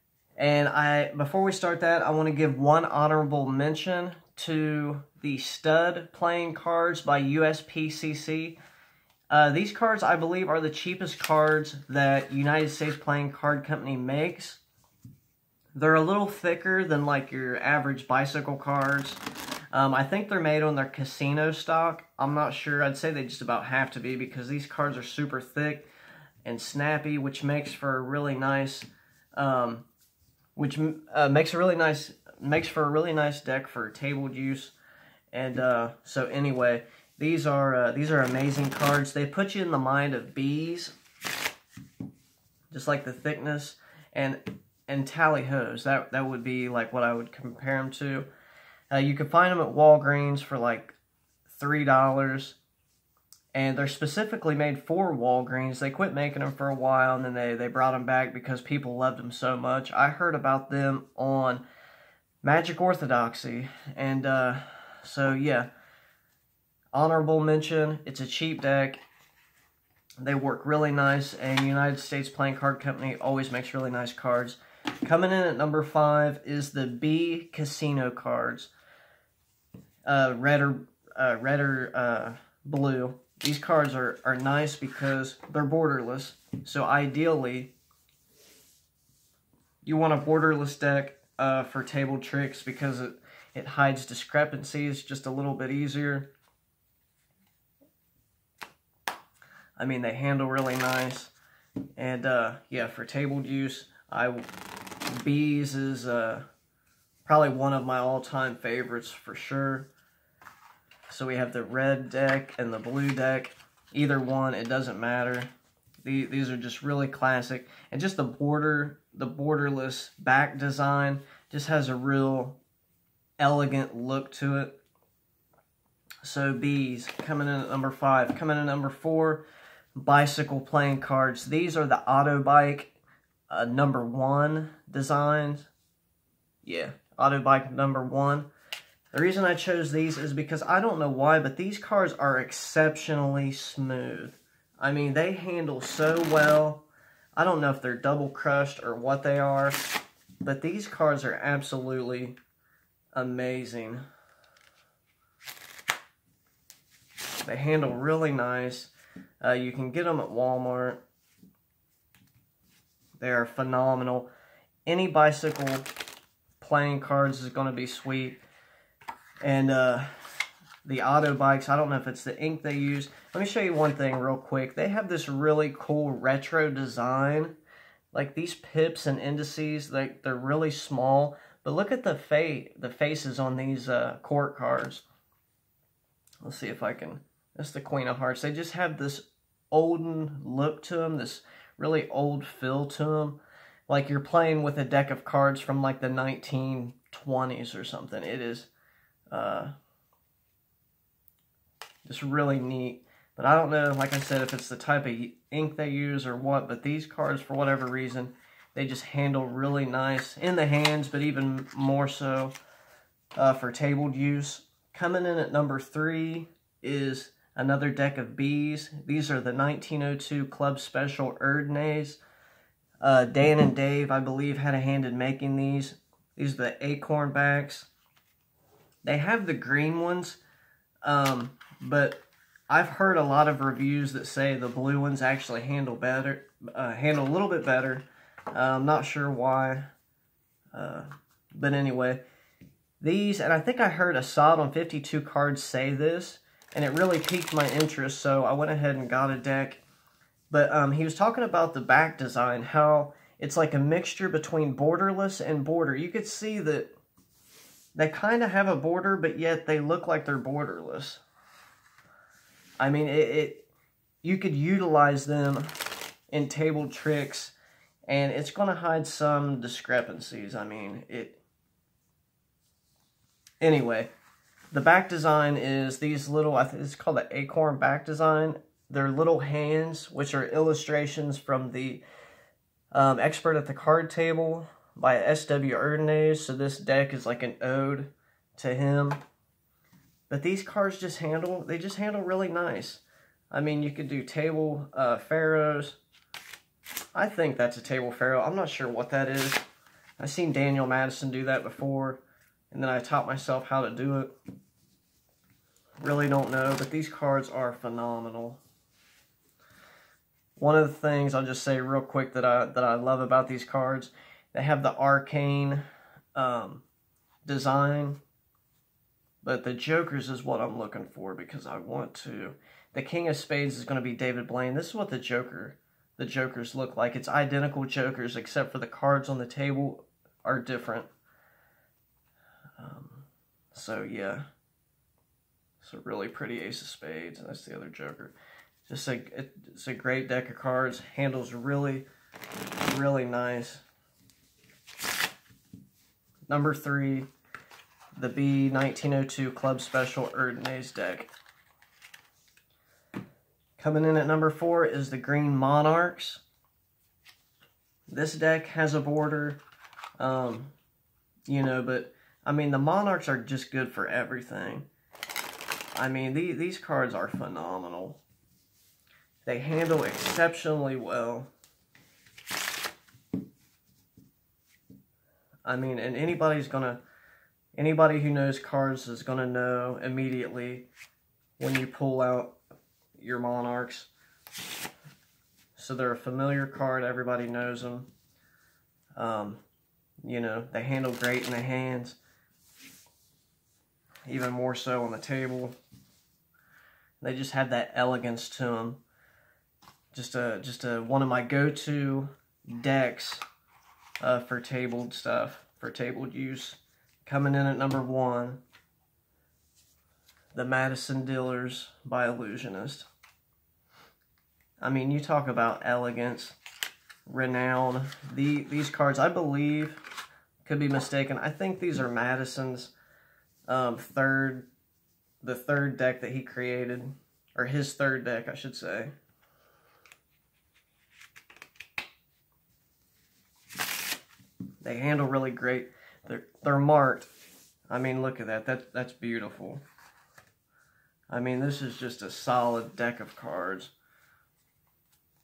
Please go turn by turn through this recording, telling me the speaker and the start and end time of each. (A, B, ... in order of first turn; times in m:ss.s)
0:00.4-0:08.6 A
0:09.3-0:14.6 A
0:15.8-0:19.2 A
0:19.7-0:25.9 A
0:26.4-0:29.9 A
0:30.6-0:34.7 A
0:35.3-0:41.0 A
0:42.7-0:48.3 A
0:48.9-0:51.0 A
0:51.5-0:52.6 A
0:53.5-1:01.6 A
1:02.4-1:05.7 A
1:06.9-1:09.0 A
1:10.2-1:18.7 A
1:20.0-1:27.7 A
1:29.8-1:36.3 A
1:39.8-1:41.3 A
1:42.0-1:44.5 A
1:45.1-1:46.5 A
1:47.3-1:49.9 A
1:51.1-1:55.5 A
1:56.0-2:02.6 A
2:03.4-2:04.7 A
2:06.2-2:09.4 A
2:10.0-2:13.0 A
2:13.5-2:15.7 A
2:16.6-2:18.5 A
2:19.1-2:29.8 A
2:30.4-2:32.4 A
2:33.1-2:34.0 A
2:37.4-2:41.0 A
2:43.2-2:44.3 A
2:44.9-2:45.9 A
2:46.6-2:48.4 A
2:49.4-2:50.1 A
2:50.8-2:57.6 A
2:58.1-3:05.0 A
3:06.4-3:18.7 A
3:19.3-3:19.7 A
3:22.0-3:32.5 A
3:33.4-3:42.2 A
3:43.0-3:47.9 A
3:49.0-3:50.4 A
3:51.0-3:59.9 A
4:00.7-4:02.2 A
4:03.0-4:09.8 A
4:10.5-4:16.9 A
4:18.0-4:21.2 A
4:22.8-4:23.7 A
4:24.2-4:25.7 A
4:26.3-4:27.5 A
4:28.1-4:31.4 A
4:33.6-4:34.1 A
4:34.7-4:42.0 A
4:42.9-4:49.2 A
4:50.3-4:56.0 A
4:57.2-4:59.7 A
5:00.2-5:04.3 A
5:06.0-5:08.6 A
5:10.6-5:15.8 A
5:16.4-5:16.8 A
5:17.5-5:18.2 A
5:19.4-5:31.1 A
5:32.8-5:34.4 A
5:35.8-5:38.3 A
5:38.9-5:42.1 A
5:42.8-5:43.8 A
5:46.5-5:47.3 A
5:48.2-5:51.3 A
5:53.8-5:56.4 A
5:58.1-5:59.6 A
6:00.2-6:00.7 A
6:01.5-6:04.9 A
6:06.0-6:08.2 A
6:09.4-6:11.5 A
6:15.6-6:17.0 A
6:17.8-6:20.9 A
6:21.6-6:22.6 A
6:23.2-6:24.1 A
6:25.8-6:28.1 A
6:29.2-6:29.6 A
6:30.2-6:32.2 A
6:34.3-6:35.8 A
6:37.2-6:39.0 A
6:40.1-6:43.4 A
6:44.2-6:48.6 A
6:50.5-6:53.1 A
6:54.8-6:56.6 A
6:57.3-7:00.0 A
7:00.6-7:02.9 A
7:03.7-7:04.7 A
7:05.4-7:09.1 A
7:14.8-7:17.3 A
7:17.9-7:19.8 A
7:21.3-7:23.9 A